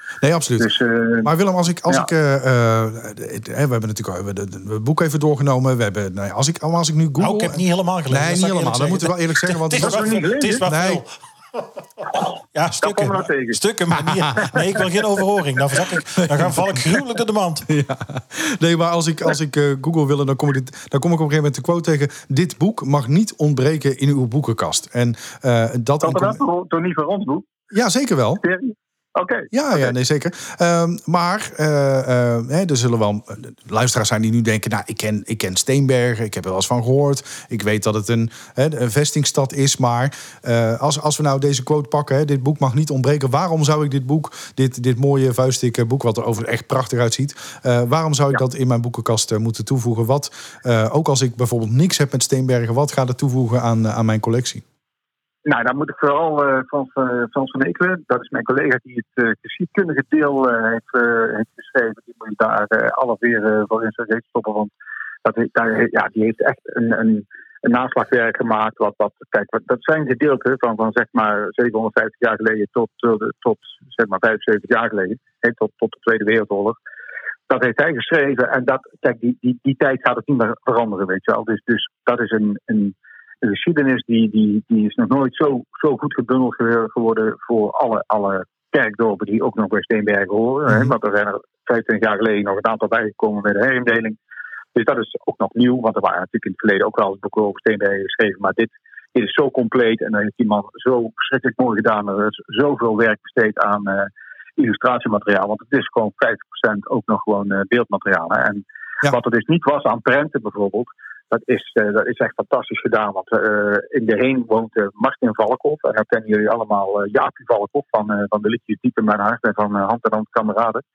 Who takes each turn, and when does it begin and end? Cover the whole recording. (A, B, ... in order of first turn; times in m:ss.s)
0:00.2-0:11.0 A
0:00.6-0:01.3 B
0:07.2-0:11.1 C
0:09.8-0:10.6 B
0:12.5-0:17.7 C
0:12.8-0:13.6 B
0:14.0-0:14.5 A
0:16.3-0:16.8 A
0:17.7-0:26.4 A
0:26.0-0:27.5 B
0:27.7-0:28.4 A
0:28.4-0:29.9 B
0:29.5-0:54.6 A
0:55.4-1:04.7 B
1:05.2-1:16.8 B
1:17.5-1:34.2 B
1:34.7-2:00.8 B